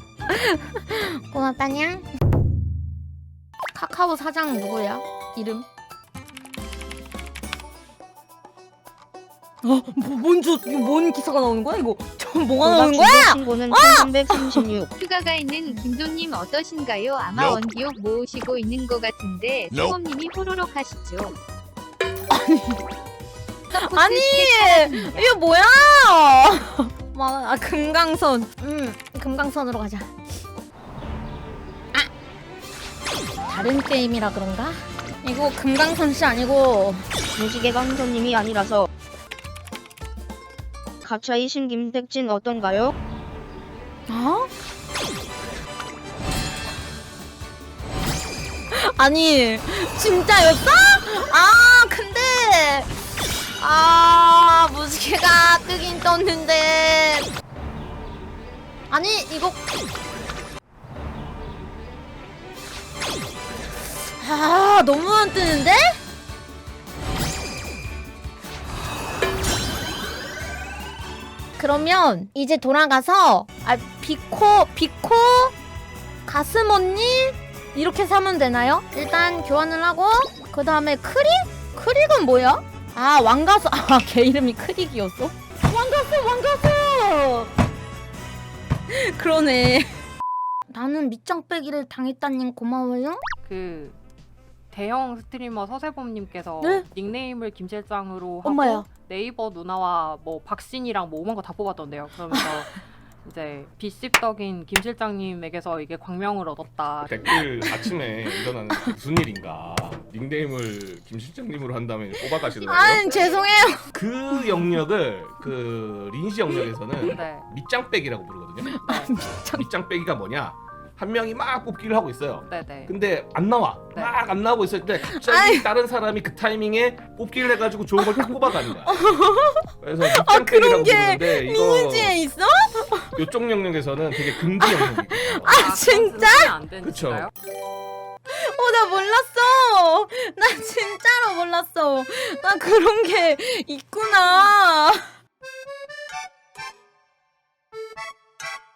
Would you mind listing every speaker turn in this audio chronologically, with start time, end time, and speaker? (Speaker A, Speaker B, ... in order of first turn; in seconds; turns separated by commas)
Speaker A: 0.3-2.1, Speaker A: 3.7-5.7, Speaker A: 9.6-14.6, Speaker B: 12.6-14.9, Speaker C: 15.0-21.4, Speaker A: 22.3-22.8, Speaker C: 23.7-25.4, Speaker A: 23.7-30.1, Speaker A: 33.4-37.0, Speaker B: 37.4-38.9, Speaker B: 41.0-42.9, Speaker A: 44.1-44.5, Speaker A: 48.7-57.3, Speaker A: 58.9-59.6, Speaker A: 63.9-66.0, Speaker A: 71.6-75.5, Speaker A: 76.2-87.5, Speaker A: 88.9-90.0, Speaker A: 90.7-93.2, Speaker D: 93.4-94.0, Speaker D: 94.7-107.2, Speaker A: 98.4-98.9, Speaker E: 107.1-113.2, Speaker A: 107.6-108.9, Speaker A: 112.2-113.8, Speaker D: 112.8-113.8, Speaker E: 113.9-118.8, Speaker A: 114.3-114.8, Speaker A: 116.5-117.1, Speaker D: 117.0-117.5, Speaker A: 118.6-119.7, Speaker D: 118.8-119.1, Speaker E: 119.5-132.2, Speaker D: 122.4-122.9, Speaker D: 123.9-124.2, Speaker A: 125.0-125.7, Speaker A: 128.2-133.2, Speaker E: 133.2-135.6, Speaker A: 134.2-136.5, Speaker D: 135.5-137.3, Speaker E: 136.8-137.3, Speaker A: 138.3-145.1